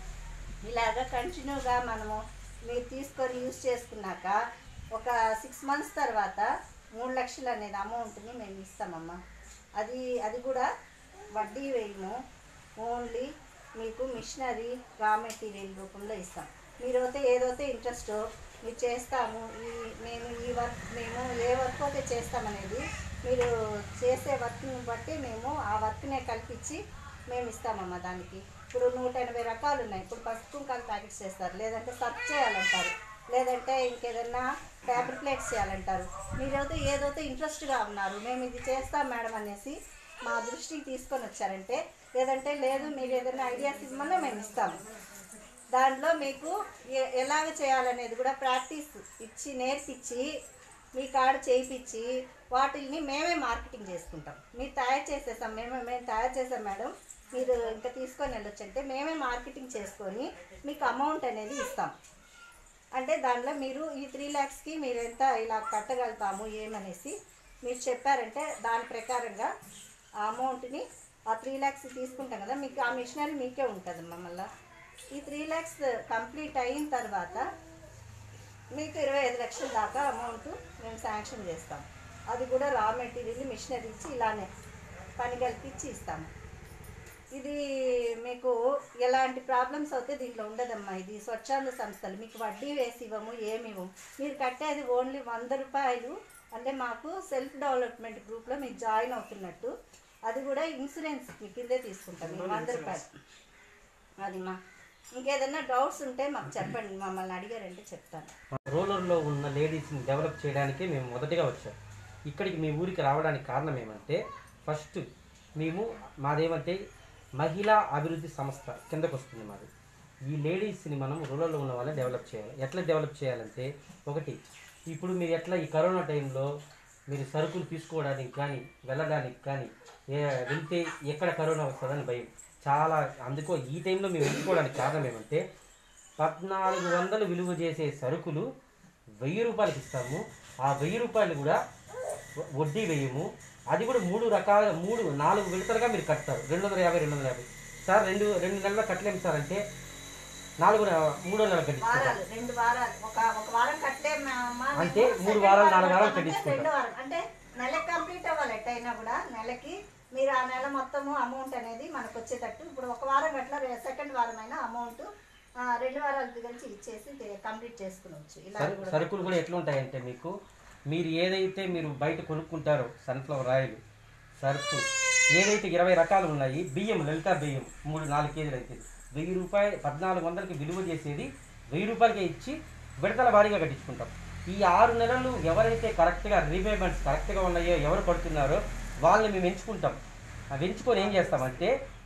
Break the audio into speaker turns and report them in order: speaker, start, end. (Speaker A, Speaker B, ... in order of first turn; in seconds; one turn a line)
Speaker A: 0.6-2.2
Speaker A: 2.7-4.4
Speaker A: 5.0-6.5
Speaker A: 7.0-9.2
Speaker A: 9.8-10.7
Speaker A: 11.4-12.2
Speaker A: 12.8-26.8
Speaker A: 27.3-44.7
Speaker A: 45.7-50.2
Speaker A: 51.0-61.9
Speaker A: 63.0-69.5
Speaker A: 70.2-74.5
Speaker A: 75.1-77.5
Speaker A: 78.8-84.5
Speaker A: 85.2-86.3
Speaker A: 88.2-99.7
Speaker A: 100.3-103.1
Speaker B: 102.2-103.0
Speaker A: 104.2-104.6
Speaker A: 105.2-108.3
Speaker B: 108.5-111.8
Speaker B: 112.3-115.0
Speaker B: 115.6-116.8
Speaker B: 117.4-119.7
Speaker B: 120.3-126.5
Speaker B: 127.1-135.4
Speaker B: 136.2-138.4
Speaker B: 139.2-141.6
Speaker B: 142.6-149.6
Speaker B: 150.6-152.2
Speaker A: 151.8-165.1
Speaker B: 154.8-156.7
Speaker A: 165.7-169.3
Speaker B: 168.6-170.3
Speaker B: 170.9-173.8
Speaker B: 174.4-174.8
Speaker B: 175.3-190.0
Speaker B: 190.5-191.7
Speaker A: 191.0-191.4